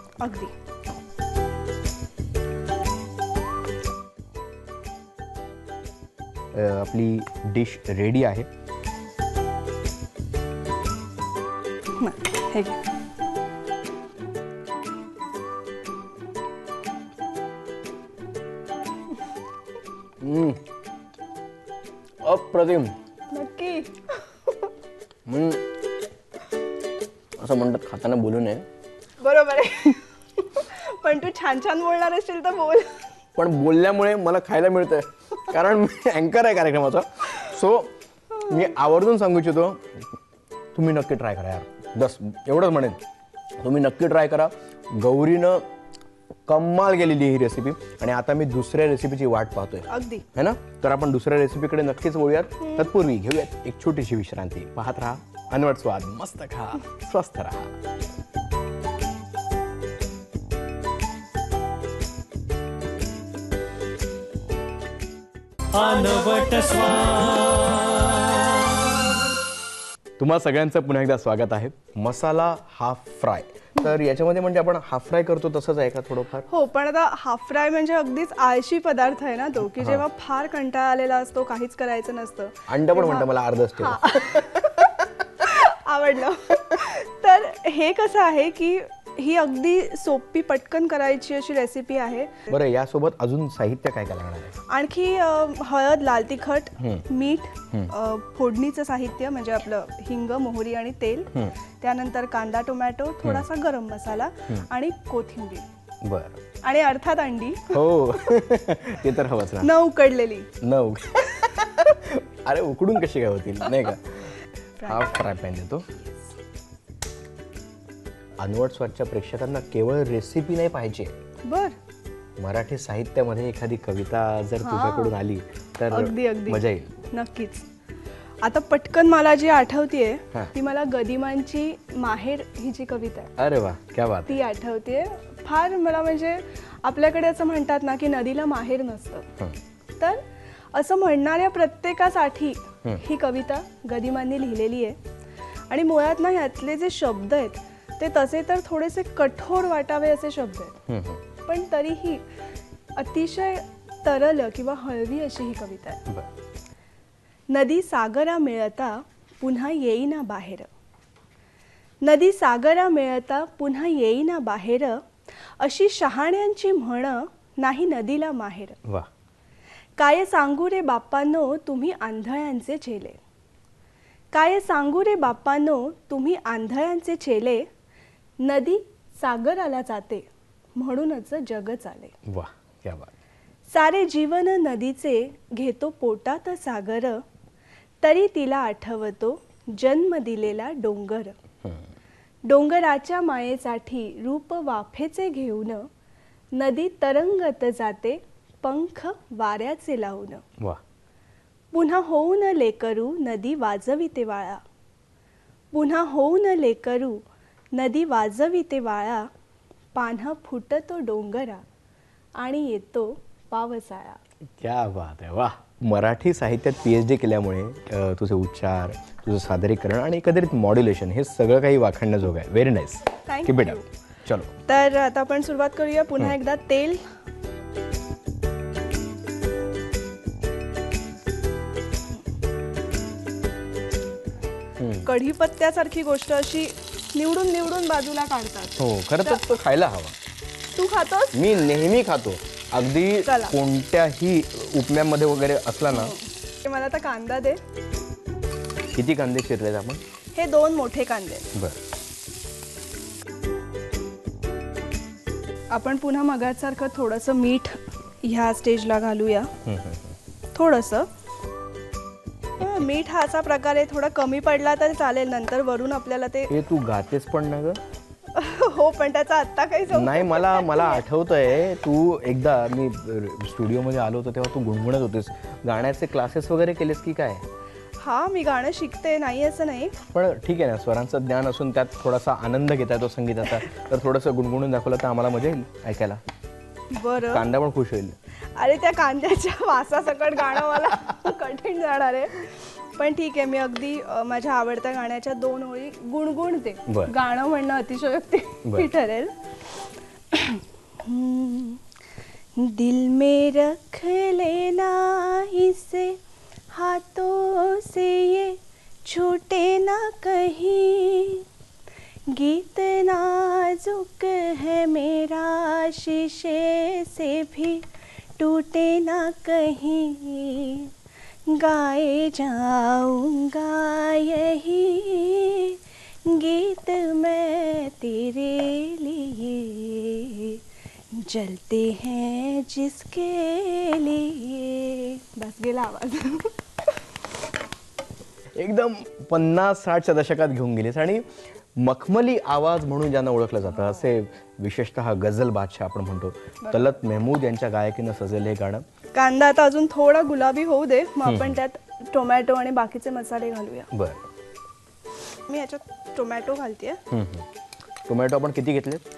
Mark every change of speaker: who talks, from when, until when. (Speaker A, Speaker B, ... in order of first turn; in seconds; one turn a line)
Speaker A: 0.2-0.5
Speaker B: 6.5-8.5
Speaker A: 12.0-12.8
Speaker B: 20.2-20.6
Speaker B: 22.2-23.0
Speaker A: 23.3-24.6
Speaker B: 25.3-25.6
Speaker B: 27.4-28.7
Speaker A: 29.2-33.0
Speaker B: 33.4-37.9
Speaker B: 38.5-40.1
Speaker B: 40.8-43.0
Speaker B: 43.6-45.6
Speaker B: 46.5-57.7
Speaker A: 49.9-50.2
Speaker A: 52.6-52.9
Speaker C: 65.7-68.5
Speaker B: 70.2-76.5
Speaker A: 76.5-92.5
Speaker B: 79.8-80.0
Speaker B: 82.7-85.1
Speaker B: 92.5-94.5
Speaker A: 94.7-105.7
Speaker B: 96.8-97.1
Speaker B: 106.0-106.4
Speaker A: 106.6-107.9
Speaker B: 107.7-109.7
Speaker A: 109.6-110.5
Speaker B: 110.6-115.9
Speaker A: 114.8-115.3
Speaker B: 118.4-121.1
Speaker A: 121.5-121.8
Speaker B: 122.4-127.0
Speaker A: 124.6-125.2
Speaker A: 125.9-127.7
Speaker A: 128.4-133.3
Speaker B: 133.4-134.4
Speaker A: 134.3-139.3
Speaker A: 140.7-145.0
Speaker A: 145.7-150.8
Speaker B: 150.9-151.2
Speaker A: 151.5-152.2
Speaker A: 153.0-156.0
Speaker A: 157.5-160.7
Speaker A: 162.0-165.0
Speaker A: 165.6-168.8
Speaker A: 170.0-173.2
Speaker A: 174.3-177.7
Speaker A: 178.4-182.2
Speaker B: 182.3-183.1
Speaker A: 183.7-187.2
Speaker A: 188.0-191.4
Speaker A: 192.5-195.9
Speaker A: 196.5-200.4
Speaker A: 201.7-204.6
Speaker A: 205.7-209.3
Speaker A: 209.9-211.7
Speaker A: 212.4-214.2
Speaker B: 214.5-224.5
Speaker A: 223.3-223.9
Speaker A: 224.7-227.1
Speaker B: 234.8-235.1
Speaker A: 235.1-239.4
Speaker B: 238.8-240.2
Speaker A: 240.7-241.4
Speaker B: 241.3-246.2
Speaker A: 243.2-243.6
Speaker A: 245.9-247.6
Speaker B: 248.9-250.0
Speaker A: 250.3-251.5
Speaker B: 251.5-251.8
Speaker A: 255.7-259.5
Speaker B: 259.6-260.1
Speaker A: 260.6-261.1
Speaker A: 262.6-266.6
Speaker B: 266.5-267.8
Speaker A: 268.3-271.0
Speaker B: 269.9-277.4
Speaker A: 278.0-279.9
Speaker B: 280.1-286.2
Speaker A: 286.9-287.4
Speaker B: 287.3-288.2
Speaker A: 288.6-299.3
Speaker B: 296.9-297.1
Speaker A: 300.3-301.8
Speaker A: 302.6-306.2
Speaker A: 306.7-311.5
Speaker A: 312.3-317.9
Speaker A: 318.4-320.9
Speaker A: 321.5-330.6
Speaker A: 331.1-336.6
Speaker B: 338.6-348.9
Speaker A: 346.6-346.9
Speaker A: 349.1-353.9
Speaker B: 351.2-351.6
Speaker B: 353.9-354.2
Speaker A: 355.5-357.0
Speaker B: 357.1-357.5
Speaker B: 358.1-359.1